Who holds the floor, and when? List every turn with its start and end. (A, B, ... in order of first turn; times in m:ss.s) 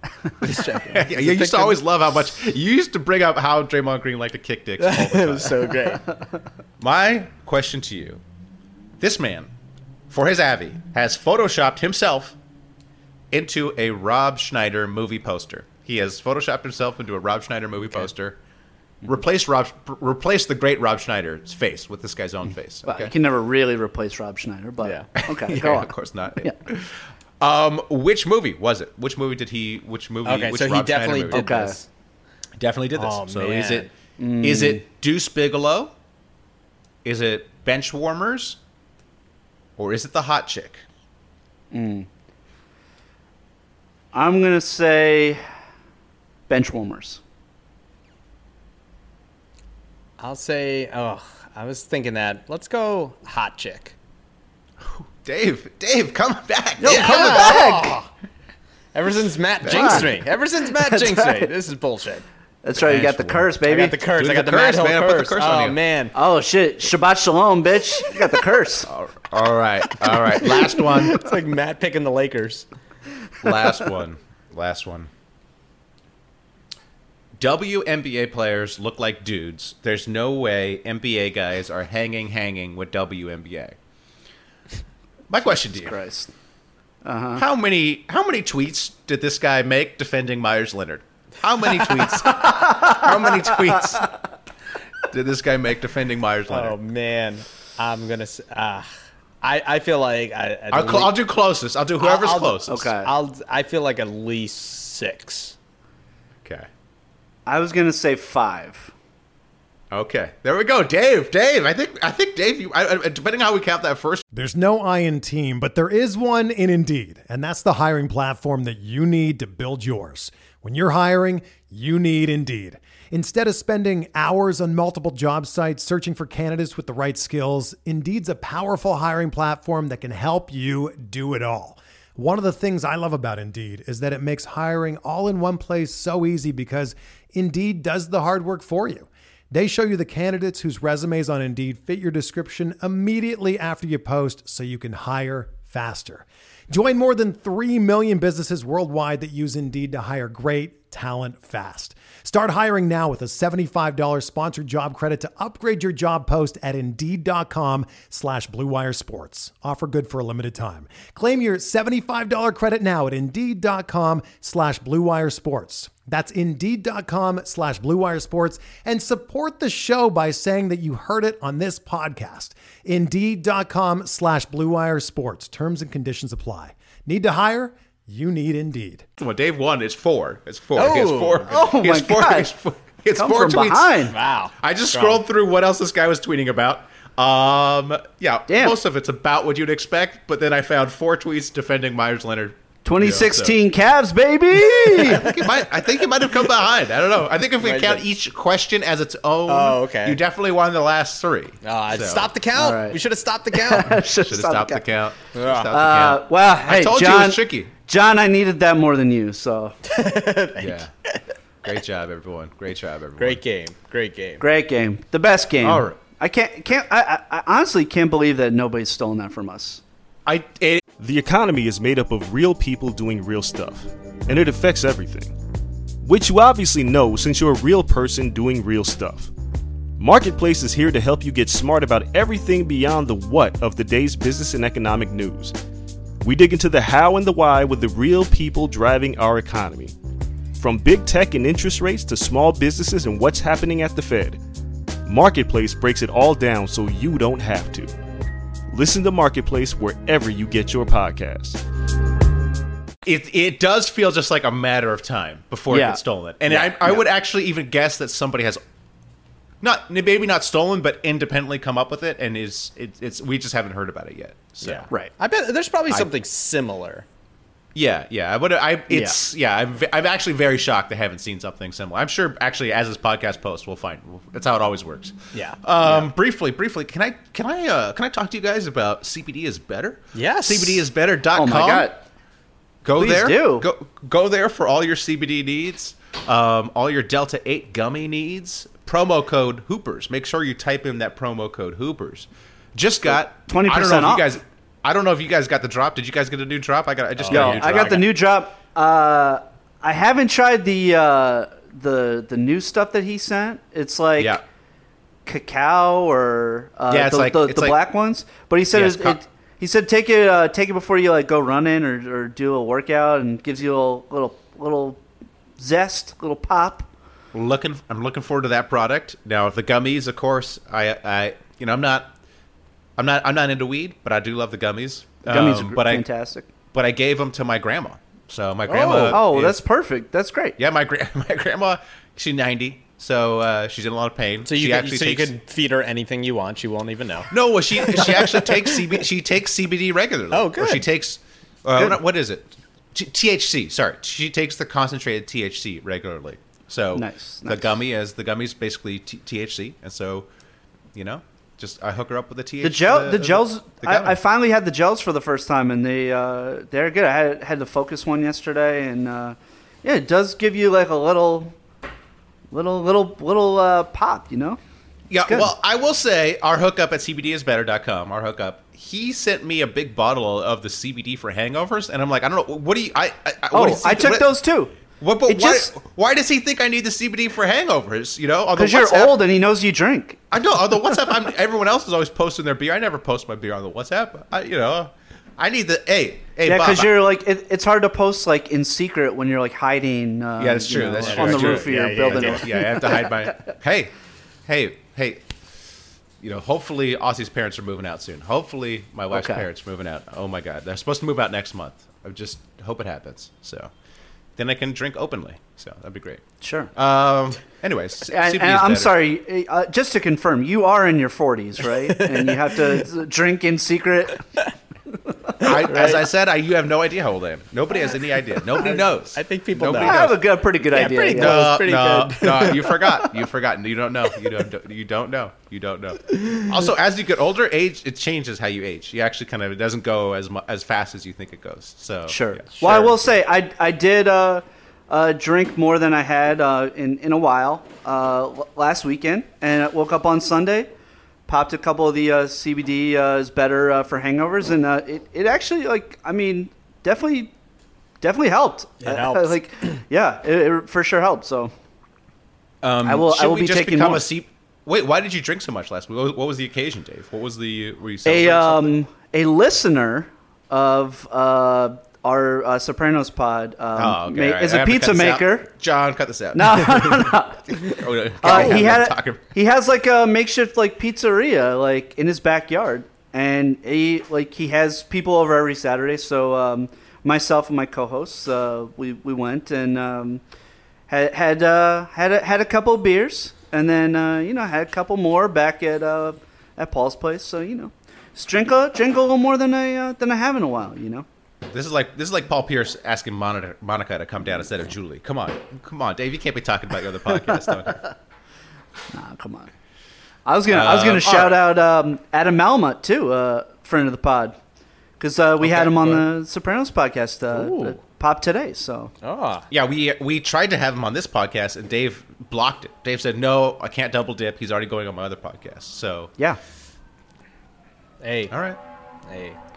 0:00.4-0:01.8 A
0:00.8-0:05.8 B
0:04.8-0:06.0 A
0:06.8-0:08.2 B
0:09.0-0:09.5 B
0:10.1-0:12.4 B
0:13.3-0:18.4 B
0:19.0-0:23.1 B
0:22.8-0:26.6 C
0:24.8-0:25.1 A
0:25.2-0:31.4 B
0:30.2-0:31.8 A
0:31.3-0:31.8 C
0:32.6-0:33.9 B
0:33.0-0:33.9 A
0:34.2-0:34.8 C
0:34.4-0:35.9 B
0:37.0-0:38.6 B
0:39.8-0:40.8 B
0:41.7-0:42.1 C
0:44.1-0:45.4 C
0:46.5-0:47.2 C
0:50.2-0:53.9 A
0:54.8-0:57.7 B
0:56.8-0:58.0 C
0:56.8-0:58.1 A
0:58.9-1:02.2 A
0:59.6-1:00.1 B
0:59.7-1:00.0 C
1:00.8-1:01.5 C
1:02.6-1:04.0 C
1:02.8-1:03.5 B
1:03.6-1:06.1 A
1:04.2-1:05.8 B
1:06.1-1:08.9 C
1:08.9-1:11.2 B
1:10.7-1:12.6 A
1:13.4-1:15.1 B
1:17.4-1:23.7 B
1:25.3-1:25.9 B
1:25.7-1:26.3 C
1:27.0-1:27.4 C
1:27.4-1:34.0 B
1:32.3-1:33.6 C
1:35.1-1:36.8 B
1:36.5-1:38.9 A
1:39.4-1:41.1 A
1:40.7-1:42.9 B
1:42.0-1:45.5 A
1:42.7-1:43.1 C
1:47.4-1:48.9 C
1:49.9-1:54.2 B
1:54.3-2:59.0 D
2:59.2-3:04.0 B
3:00.7-3:01.5 A
3:01.5-3:02.5 C
3:03.2-3:04.1 C
3:04.1-3:05.2 A
3:04.6-3:13.6 B
3:08.5-3:08.8 C
3:12.8-3:15.3 C
3:14.9-3:22.3 B
3:17.6-3:18.0 A
3:19.5-3:20.2 A
3:21.6-3:23.9 A
3:22.6-3:23.0 C
3:23.5-3:24.8 C
3:24.1-3:27.7 B
3:25.3-3:25.7 A
3:25.7-3:29.8 C
3:29.9-3:30.8 A
3:30.6-3:30.9 B
3:31.6-3:33.4 B
3:33.2-3:34.4 A
3:34.4-3:39.8 C
3:35.6-3:36.0 B
3:40.2-3:40.8 B
3:41.0-3:45.3 E
3:46.0-3:49.3 E
3:50.0-3:55.6 E
3:56.2-3:59.9 E
4:00.6-4:04.4 E
4:05.0-4:07.9 E
4:08.7-4:11.6 E
4:13.0-4:18.6 B
4:15.7-4:16.0 C
4:16.5-4:17.0 A
4:19.6-4:24.9 B
4:24.6-4:27.0 A
4:27.7-4:41.9 B
4:28.9-4:29.2 C
4:35.3-4:36.1 A
4:40.1-4:40.8 A
4:41.4-4:42.0 C
4:42.8-4:58.0 B
4:43.0-4:43.6 C
4:53.1-4:54.3 C
4:57.2-4:57.9 A
4:57.3-5:04.4 C
5:05.2-5:15.0 C
5:06.9-5:07.8 B
5:08.7-5:09.2 B
5:15.6-5:16.9 C
5:17.3-5:22.1 B
5:23.0-5:26.0 B
5:25.2-5:26.5 C
5:26.7-5:29.6 B
5:28.7-5:29.2 A
5:29.1-5:30.6 C
5:30.6-5:35.3 B
5:34.4-5:38.8 A
5:37.3-5:50.3 B
5:40.3-5:40.8 A
5:46.9-5:47.7 C
5:50.9-5:54.2 B
5:52.6-6:01.5 C
6:02.5-6:04.6 C
6:05.1-6:14.3 B
6:13.5-6:14.7 C
6:15.0-6:19.2 B
6:15.3-6:15.7 C
6:18.6-6:20.2 C
6:20.3-6:26.9 B
6:26.4-6:33.1 C
6:30.4-6:33.9 B
6:31.0-6:32.5 A
6:34.4-6:35.2 B
6:36.2-6:43.7 B
6:39.1-6:39.4 C
6:44.4-6:46.2 B
6:46.4-6:46.7 C
6:46.7-6:49.0 B
6:48.1-6:54.2 C
6:51.8-6:52.3 A
6:55.4-7:00.2 B
6:55.4-6:56.0 A
6:58.6-7:00.1 A
6:59.8-7:01.6 C
7:00.7-7:02.8 A
7:01.1-7:13.1 B
7:12.1-7:20.7 C
7:21.3-7:27.3 C
7:28.0-7:31.5 C
7:28.8-7:29.4 A
7:32.6-7:38.7 B
7:32.8-7:34.0 C
7:38.0-7:45.5 C
7:43.8-7:47.0 B
7:46.3-8:00.2 C
7:47.6-7:49.2 B
7:48.2-7:48.5 A
8:00.9-8:11.0 C
8:11.5-8:17.8 B
8:17.3-8:17.9 C
8:18.9-8:19.5 C
8:20.2-8:24.4 C
8:20.5-8:21.4 B
8:25.0-8:28.9 C
8:25.4-8:26.0 A
8:27.3-8:27.8 A
8:29.0-8:29.5 A
8:29.5-8:36.1 B
8:38.0-8:38.3 A
8:38.3-8:38.6 B
8:39.1-8:39.4 A